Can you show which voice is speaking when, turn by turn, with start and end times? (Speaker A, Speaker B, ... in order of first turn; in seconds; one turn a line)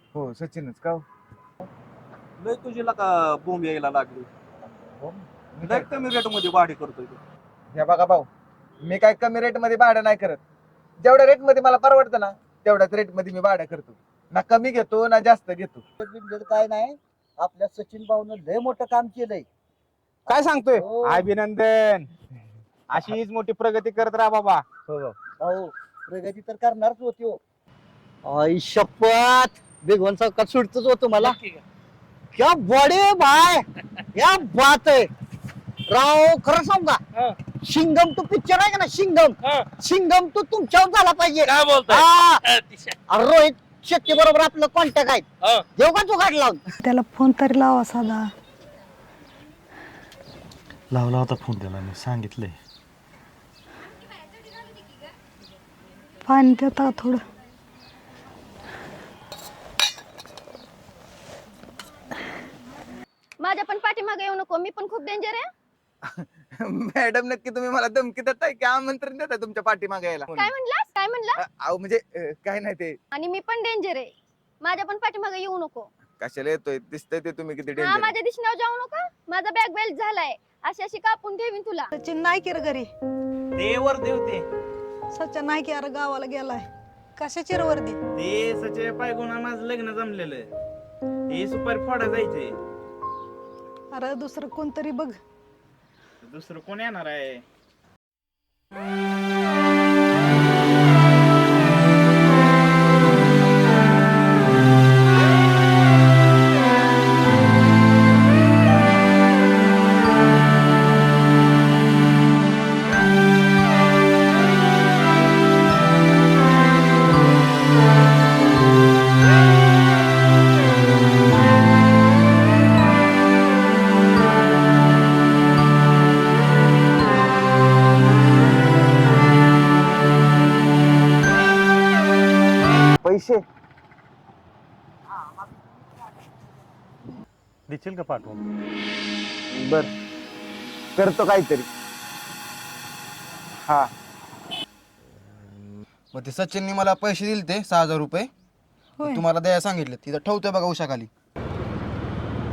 Speaker A: 0.1-1.0
Speaker B: 2.4-4.2
Speaker A: 5.0-5.9
Speaker B: 5.7-7.2
Speaker A: 7.7-8.3
Speaker A: 8.8-10.4
Speaker A: 11.0-15.8
Speaker C: 16.0-19.4
Speaker D: 20.3-22.1
Speaker C: 20.3-21.2
Speaker D: 22.9-24.6
Speaker C: 25.4-27.4
Speaker C: 28.2-31.4
Speaker B: 31.2-31.6
Speaker C: 32.4-33.6
Speaker C: 34.1-35.1
Speaker C: 35.9-37.0
Speaker C: 37.6-42.4
Speaker B: 41.4-42.9
Speaker C: 43.1-46.6
Speaker E: 46.8-48.3
Speaker F: 50.9-52.6
Speaker E: 56.3-57.2
Speaker G: 63.4-65.5
Speaker A: 66.2-70.5
Speaker G: 70.3-71.4
Speaker A: 71.4-73.0
Speaker G: 73.1-75.9
Speaker A: 76.2-78.1
Speaker G: 77.8-81.9
Speaker E: 82.0-82.9
Speaker H: 83.6-84.4
Speaker E: 85.1-88.0
Speaker H: 88.1-90.5
Speaker H: 91.3-92.6
Speaker E: 93.9-95.2
Speaker H: 96.2-97.4
Speaker A: 133.0-133.4
Speaker F: 137.7-138.4
Speaker A: 139.5-139.9
Speaker A: 140.9-141.7
Speaker I: 146.1-148.3
Speaker E: 149.0-149.2
Speaker I: 149.0-151.1